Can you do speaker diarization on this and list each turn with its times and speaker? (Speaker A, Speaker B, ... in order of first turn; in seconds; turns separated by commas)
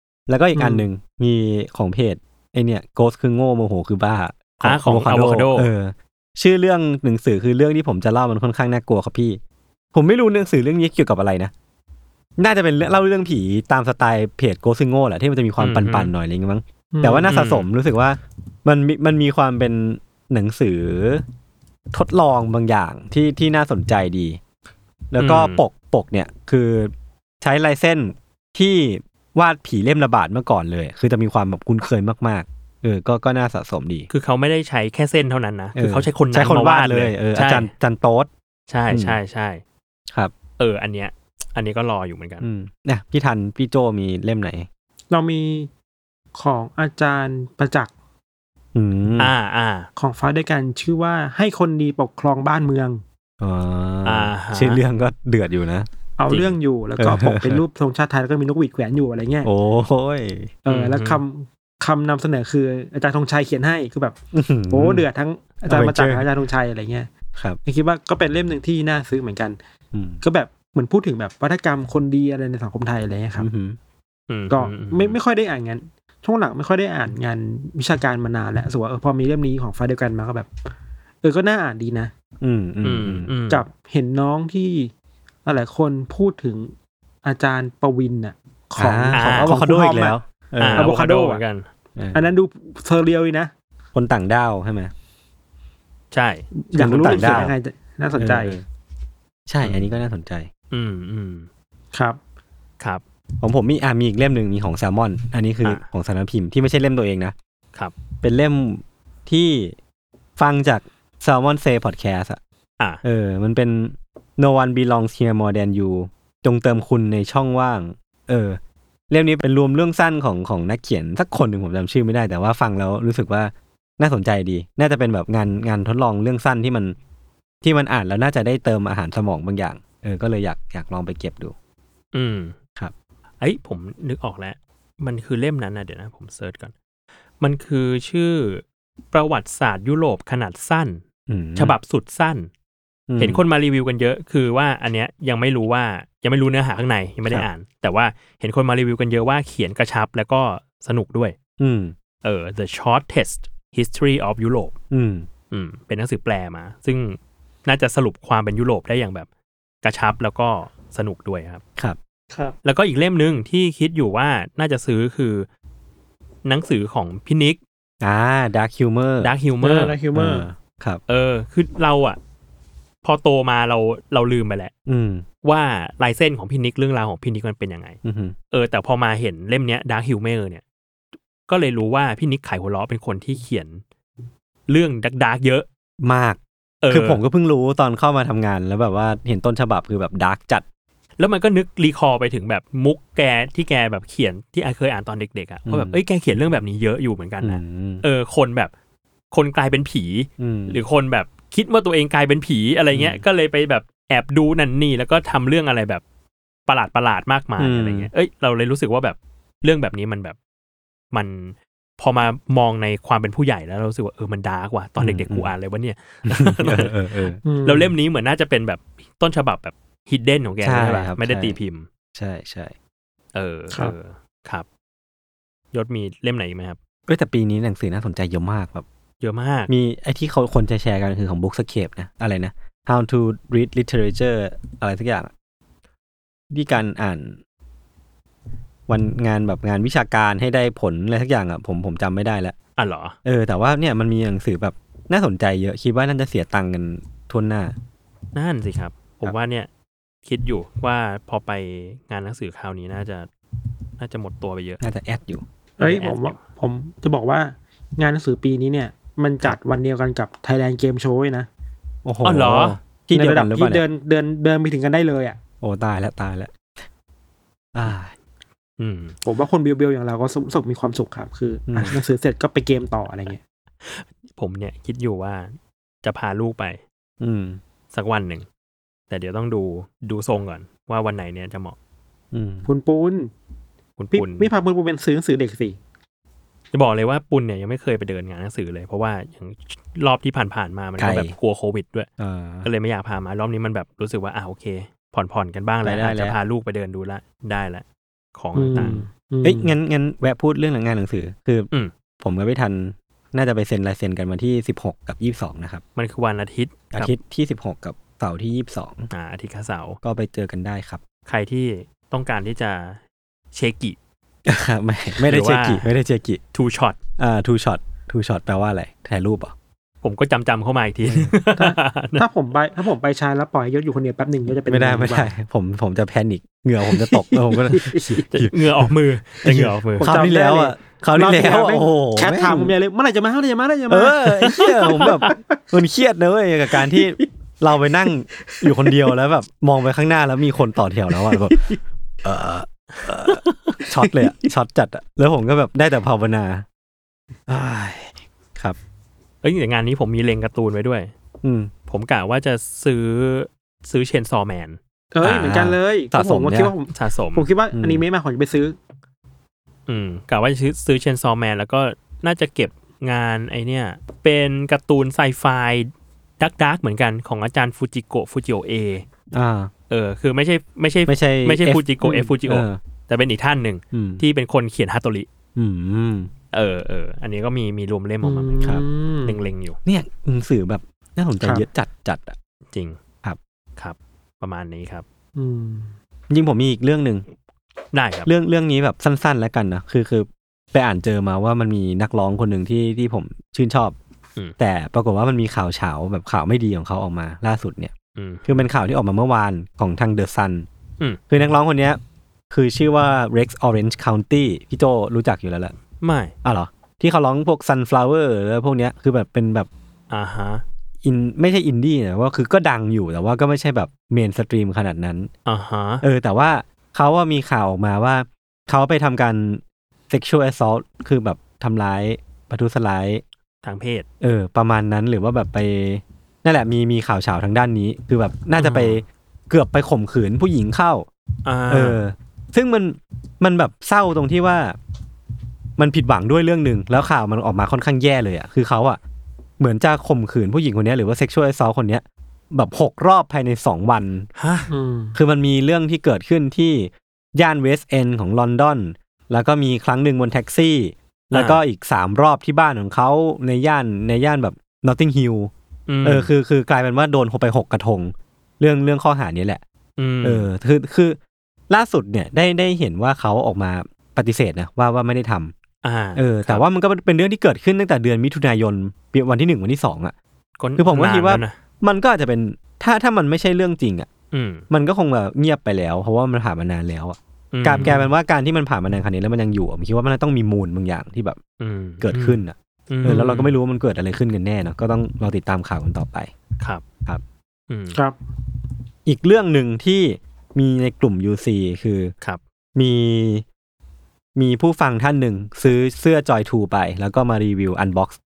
Speaker A: 0.3-9.4, Speaker B: 0.6-0.8, Speaker C: 4.6-5.7, Speaker A: 9.9-11.5, Speaker A: 12.4-21.2, Speaker C: 15.6-16.1, Speaker B: 16.9-17.3, Speaker C: 17.3-17.7, Speaker A: 21.9-24.4, Speaker A: 25.1-34.1, Speaker C: 25.2-25.6, Speaker C: 34.1-37.7, Speaker A: 35.8-38.3, Speaker C: 38.7-39.6, Speaker A: 38.9-39.2, Speaker C: 40.6-42.5, Speaker A: 42.4-44.7, Speaker B: 45.1-45.7, Speaker B: 46.4-47.9, Speaker A: 48.8-49.3, Speaker C: 49.2-49.9, Speaker B: 50.0-53.0, Speaker A: 53.4-55.9, Speaker C: 54.0-54.8, Speaker B: 56.2-59.5, Speaker C: 56.3-56.6, Speaker A: 57.0-57.6, Speaker A: 59.4-60.5, Speaker B: 60.6-64.2, Speaker C: 60.7-61.2, Speaker A: 64.3-65.0, Speaker B: 64.7-67.1, Speaker A: 65.7-66.3, Speaker B: 67.7-69.6, Speaker A: 69.9-70.2, Speaker B: 70.2-73.5, Speaker A: 73.3-73.8, Speaker C: 74.3-75.2, Speaker B: 74.5-80.5, Speaker B: 81.2-82.1, Speaker A: 82.4-83.3, Speaker C: 82.8-83.6, Speaker B: 83.5-84.9, Speaker B: 85.5-86.7, Speaker B: 87.2-90.2, Speaker A: 88.8-90.9, Speaker C: 89.1-89.5, Speaker C: 90.6-91.7, Speaker B: 90.8-91.4, Speaker B: 92.1-93.5, Speaker A: 93.9-94.9, Speaker C: 96.1-96.5, Speaker B: 96.7-98.6, Speaker A: 96.8-97.5, Speaker C: 97.0-97.5, Speaker A: 98.2-98.6, Speaker A: 99.5-100.5, Speaker C: 99.6-99.9, Speaker C: 100.7-101.5, Speaker A: 103.4-107.3, Speaker A: 108.2-109.8, Speaker A: 110.4-112.4, Speaker A: 113.0-118.6, Speaker A: 119.1-127.0, Speaker A: 127.6-131.5, Speaker C: 132.1-132.6, Speaker C: 133.4-136.7, Speaker C: 137.4-141.0, Speaker A: 141.3-141.8, Speaker C: 141.6-142.5, Speaker A: 143.1-143.4, Speaker C: 143.2-151.4, Speaker A: 151.6-151.9, Speaker C: 152.2-154.7, Speaker A: 154.9-155.3, Speaker C: 155.5-159.3, Speaker C: 159.8-161.6, Speaker C: 162.6-165.5, Speaker C: 166.4-167.6, Speaker A: 168.0-169.3, Speaker C: 169.2-169.9, Speaker B: 169.6-170.5, Speaker A: 170.1-171.0, Speaker C: 171.1-172.2, Speaker C: 173.0-174.7, Speaker A: 174.9-175.2, Speaker C: 175.4-178.0, Speaker A: 178.0-178.4, Speaker C: 178.5-180.6, Speaker C: 181.5-183.8, Speaker C: 184.7-185.7, Speaker A: 186.0-186.4, Speaker C: 186.8-187.2, Speaker A: 186.9-190.6, Speaker C: 191.2-198.7, Speaker A: 195.7-196.0, Speaker A: 197.4-198.0, Speaker C: 199.3-206.0, Speaker A: 200.4-200.8, Speaker A: 202.9-203.2, Speaker C: 206.7-210.4, Speaker A: 207.6-208.1, Speaker C: 211.1-216.9, Speaker A: 215.0-215.5, Speaker A: 216.3-217.4, Speaker B: 217.4-217.9, Speaker C: 217.6-221.9, Speaker A: 220.6-221.6, Speaker A: 222.2-222.7, Speaker C: 223.3-224.7, Speaker C: 225.7-226.8, Speaker A: 227.1-228.8, Speaker C: 229.2-229.7, Speaker A: 229.7-235.3, Speaker A: 236.5-237.4, Speaker A: 238.9-242.6, Speaker C: 242.8-243.2, Speaker A: 243.2-247.7, Speaker C: 248.3-249.7, Speaker C: 250.2-253.3, Speaker C: 254.0-254.8, Speaker A: 254.8-255.4, Speaker B: 255.8-261.5, Speaker C: 255.8-256.4, Speaker A: 262.1-263.8, Speaker C: 262.2-262.8, Speaker B: 263.1-265.4, Speaker A: 265.6-266.5, Speaker A: 267.7-268.1, Speaker C: 268.8-269.2, Speaker B: 269.2-273.4, Speaker A: 271.7-272.0, Speaker C: 273.8-276.8, Speaker A: 277.2-277.6, Speaker C: 277.9-278.5, Speaker C: 279.1-281.8, Speaker A: 282.3-282.7, Speaker B: 282.6-283.3, Speaker C: 284.0-284.5, Speaker B: 284.1-285.8, Speaker C: 286.7-292.1, Speaker A: 291.0-291.3, Speaker A: 292.2-292.7, Speaker C: 292.6-299.1, Speaker A: 295.8-296.4, Speaker B: 298.6-299.7, Speaker A: 299.4-301.7, Speaker A: 302.2-305.8, Speaker C: 306.0-307.1, Speaker A: 306.9-309.1, Speaker C: 309.1-310.0, Speaker A: 310.0-311.0, Speaker C: 311.3-313.0, Speaker C: 313.5-314.0, Speaker A: 314.5-316.4, Speaker C: 315.2-315.9, Speaker C: 316.5-317.0, Speaker A: 317.2-319.5, Speaker C: 320.0-322.2, Speaker A: 321.1-321.3, Speaker B: 321.6-325.3, Speaker A: 324.7-328.9, Speaker B: 326.9-328.2, Speaker C: 328.3-330.1, Speaker A: 329.4-332.7, Speaker B: 330.0-335.6, Speaker A: 333.9-341.7, Speaker C: 334.8-335.2, Speaker B: 336.8-337.2, Speaker B: 338.5-339.1, Speaker B: 341.3-341.7, Speaker A: 342.2-346.7, Speaker B: 343.9-344.3, Speaker A: 347.5-348.8, Speaker C: 349.4-351.1, Speaker A: 351.4-351.7, Speaker C: 351.9-355.5, Speaker B: 355.1-358.8, Speaker A: 355.4-356.7, Speaker C: 356.9-357.5, Speaker A: 357.7-358.1, Speaker C: 359.9-369.1, Speaker A: 369.3-369.7, Speaker C: 369.9-375.3, Speaker A: 371.1-372.8, Speaker A: 373.9-374.2, Speaker A: 375.6-376.3, Speaker C: 376.5-379.8, Speaker B: 378.2-379.4, Speaker A: 379.9-382.4, Speaker B: 381.4-381.7, Speaker C: 382.7-383.0, Speaker C: 383.8-385.1, Speaker B: 385.4-385.9, Speaker A: 386.3-387.2, Speaker C: 387.9-388.3, Speaker A: 388.3-393.9, Speaker A: 394.6-397.9, Speaker C: 398.2-398.6, Speaker A: 398.5-400.7, Speaker A: 401.3-405.8, Speaker C: 406.0-406.3, Speaker A: 406.4-409.7, Speaker C: 410.1-410.6, Speaker A: 411.0-415.3, Speaker C: 415.5-416.0, Speaker A: 416.0-423.2, Speaker C: 423.6-424.1, Speaker A: 424.2-431.1, Speaker C: 428.6-429.0, Speaker C: 431.4-432.0, Speaker A: 431.7-434.8, Speaker A: 435.8-439.0, Speaker A: 439.6-444.3, Speaker C: 444.4-444.7, Speaker B: 444.7-445.2, Speaker A: 445.1-455.5, Speaker C: 451.3-451.6, Speaker C: 455.9-456.3, Speaker A: 456.0-459.6, Speaker C: 460.0-460.5, Speaker A: 460.2-461.2, Speaker A: 461.7-465.5, Speaker C: 465.8-466.6, Speaker A: 466.2-470.1, Speaker C: 470.6-471.6, Speaker A: 470.8-474.1, Speaker C: 474.3-474.6, Speaker A: 474.7-481.4, Speaker C: 477.5-478.1, Speaker C: 481.6-482.4, Speaker A: 482.0-486.3, Speaker C: 482.9-483.5, Speaker C: 487.7-488.0, Speaker A: 489.1-492.1, Speaker A: 492.8-493.4, Speaker A: 494.4-498.2